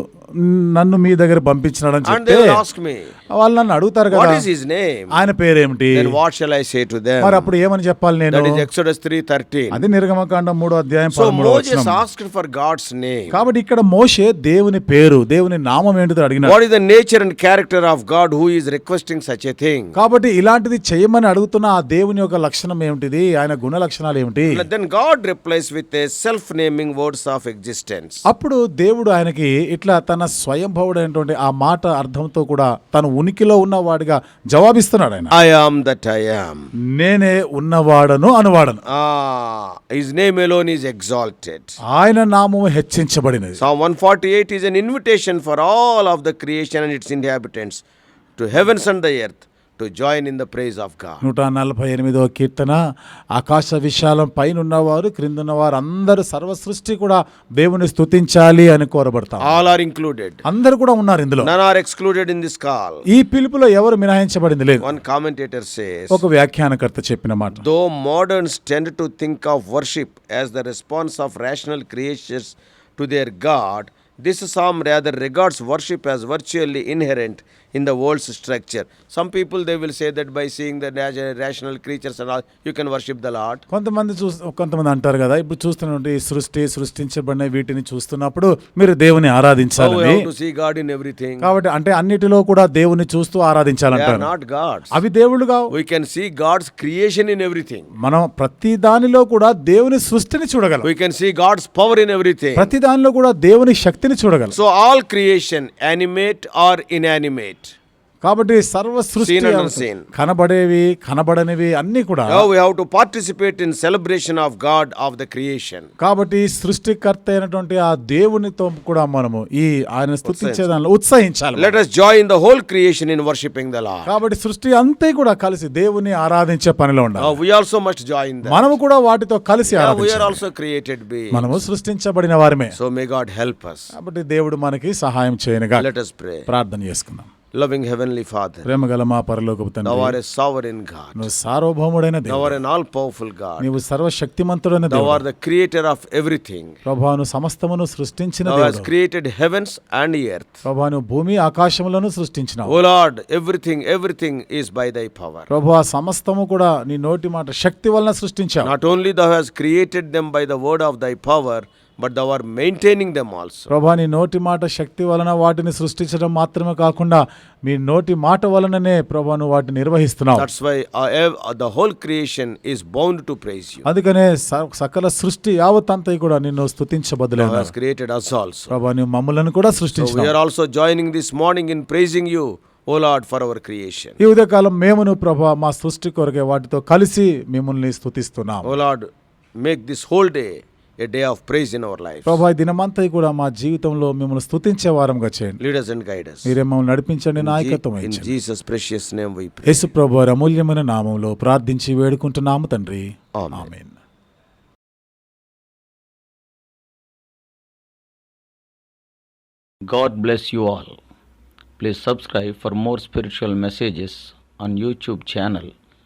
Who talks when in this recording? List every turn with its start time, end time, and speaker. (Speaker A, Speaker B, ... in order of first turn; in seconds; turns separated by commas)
Speaker A: 0.4-2.5, Speaker B: 2.0-3.1, Speaker A: 3.4-4.4, Speaker B: 4.1-5.1, Speaker A: 5.1-6.1, Speaker B: 5.9-7.5, Speaker A: 7.2-8.6, Speaker B: 8.3-9.8, Speaker A: 9.7-12.0, Speaker B: 11.1-13.4, Speaker A: 13.3-16.6, Speaker B: 16.4-19.9, Speaker A: 19.9-24.6, Speaker B: 24.5-28.2, Speaker A: 28.3-35.3, Speaker B: 35.3-36.6, Speaker A: 37.0-38.8, Speaker B: 38.9-41.7, Speaker A: 41.9-43.6, Speaker B: 43.6-47.8, Speaker B: 48.4-51.2, Speaker A: 51.2-52.8, Speaker A: 53.4-59.7, Speaker B: 59.4-60.4, Speaker A: 60.4-61.5, Speaker B: 61.4-63.0, Speaker A: 63.1-64.9, Speaker B: 64.8-66.2, Speaker A: 66.1-67.6, Speaker B: 67.6-83.6, Speaker A: 83.7-90.2, Speaker B: 89.8-91.5, Speaker A: 91.4-94.3, Speaker B: 93.9-94.9, Speaker A: 94.9-95.7, Speaker B: 95.7-97.9, Speaker A: 98.0-100.9, Speaker B: 100.8-102.7, Speaker A: 102.6-104.5, Speaker B: 104.5-107.7, Speaker A: 108.2-112.5, Speaker B: 109.2-110.0, Speaker B: 112.3-115.9, Speaker A: 116.0-121.8, Speaker B: 120.2-120.7, Speaker B: 121.5-124.1, Speaker A: 124.0-127.4, Speaker B: 127.2-128.7, Speaker A: 128.4-130.4, Speaker B: 129.7-131.6, Speaker A: 131.3-132.7, Speaker B: 132.7-133.9, Speaker A: 134.0-135.8, Speaker B: 135.8-136.4, Speaker A: 136.5-137.3, Speaker B: 137.5-138.7, Speaker A: 138.6-140.2, Speaker B: 139.8-141.2, Speaker A: 141.2-142.6, Speaker B: 142.2-143.7, Speaker A: 143.6-145.2, Speaker B: 144.9-146.8, Speaker A: 146.8-148.9, Speaker B: 148.4-150.5, Speaker A: 150.6-152.8, Speaker B: 152.7-155.5, Speaker A: 155.5-158.7, Speaker B: 158.6-163.7, Speaker A: 163.7-170.5, Speaker B: 170.3-173.8, Speaker A: 173.8-177.7, Speaker B: 177.4-178.7, Speaker A: 178.7-180.3, Speaker B: 180.0-184.2, Speaker A: 184.2-188.7, Speaker B: 188.6-189.1, Speaker B: 189.6-192.4, Speaker A: 192.2-195.6, Speaker B: 195.6-196.5, Speaker A: 196.4-198.3, Speaker B: 197.4-199.9, Speaker A: 199.7-203.9, Speaker B: 203.3-203.7, Speaker C: 209.8-211.0, Speaker C: 211.8-215.7